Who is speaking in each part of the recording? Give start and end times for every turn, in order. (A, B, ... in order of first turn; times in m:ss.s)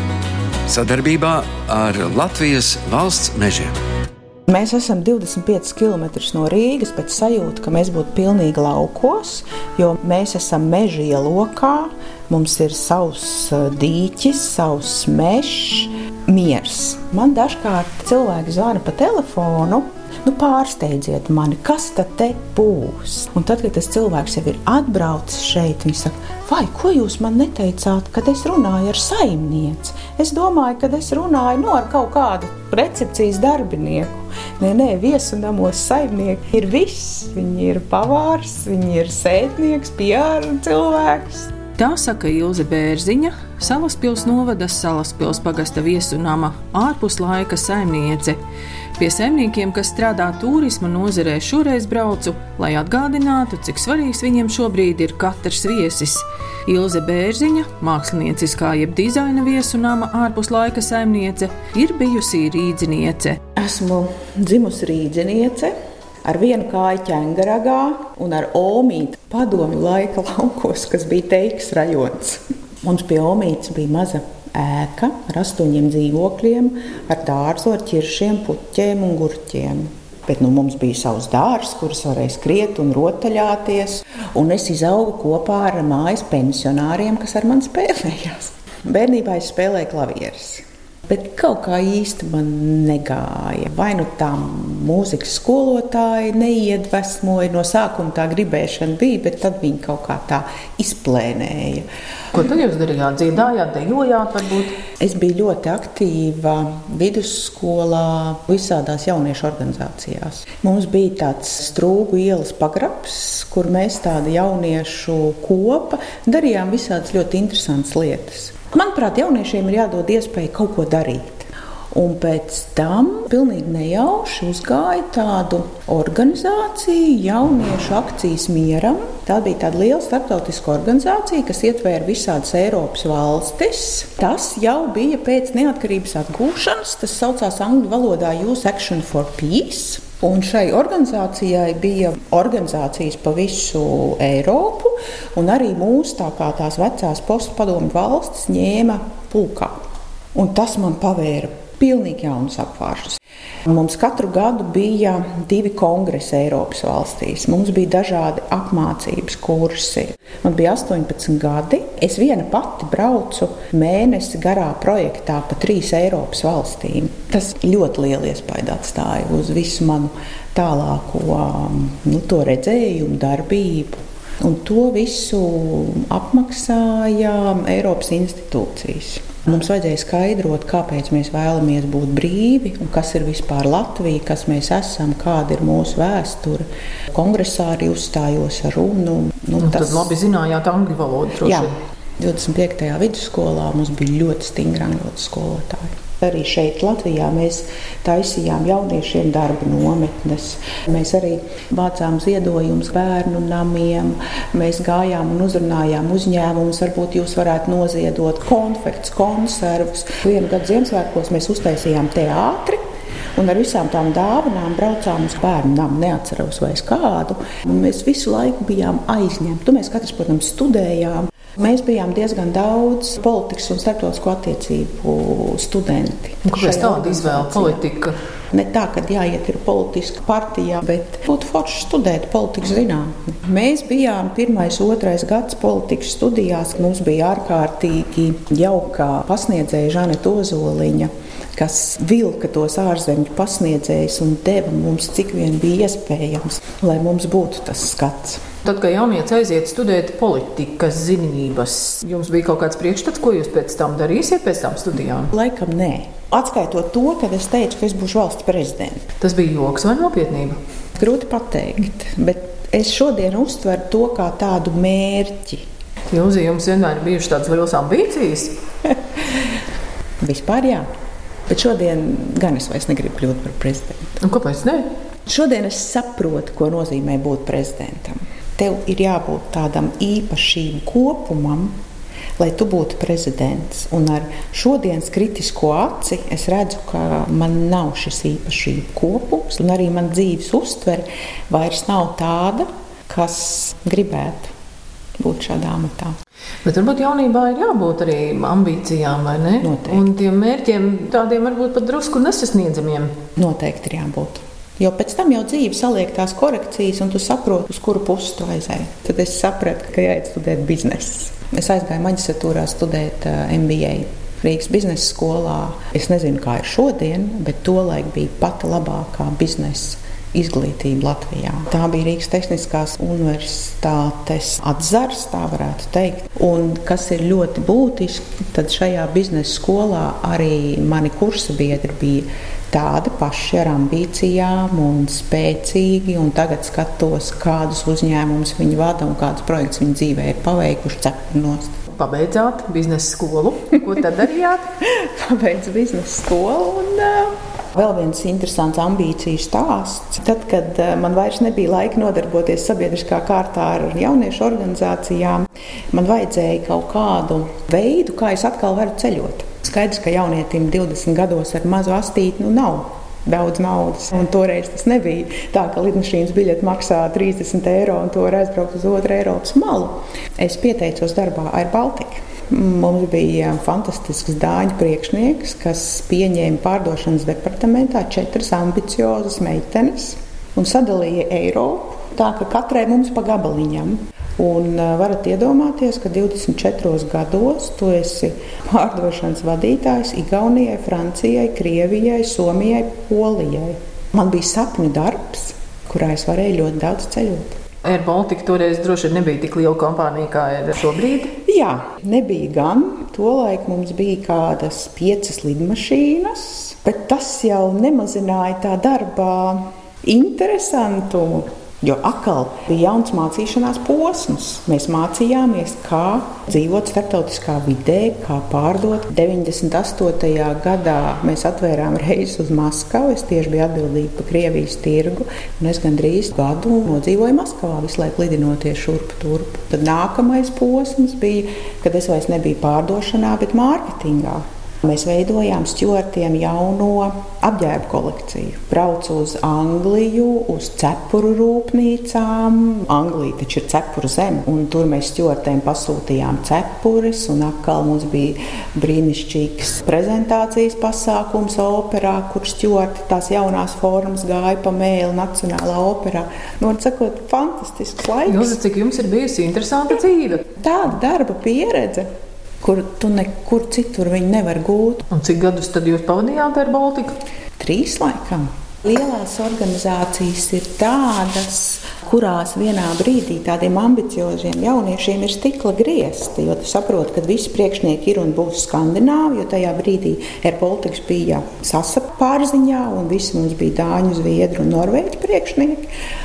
0:00.7-0:03.7 A
0:04.5-0:41.5 B
0:41.8-0:48.4 C
0:49.0-1:03.4 C
1:03.6-1:05.7 B
1:06.2-1:41.9 B
1:42.3-1:44.8 C
1:45.0-2:29.8 B
2:30.3-3:10.1 B
3:09.6-3:11.7 C
3:11.4-3:32.8 B
3:33.4-3:47.8 B
3:46.4-3:48.2 C
3:48.5-4:08.4 B
4:08.6-4:15.3 C
4:15.3-4:19.1 B
4:19.2-4:20.6 C
4:21.0-4:25.6 B
4:26.1-4:28.6 C
4:30.2-4:30.9 B
4:31.5-4:34.2 B
4:34.2-4:34.9 C
4:35.3-4:41.8 B
4:42.4-4:54.5 B
4:55.2-4:56.2 B
4:56.6-5:03.2 C
4:59.6-5:00.1 B
5:03.4-5:41.8 B
5:41.9-5:44.7 C
5:44.8-6:37.6 B
6:37.8-6:41.4 C
6:41.4-7:38.6 B
7:38.3-7:40.5 C
7:40.5-7:45.0 B
7:45.1-7:47.2 C
7:47.6-8:05.9 B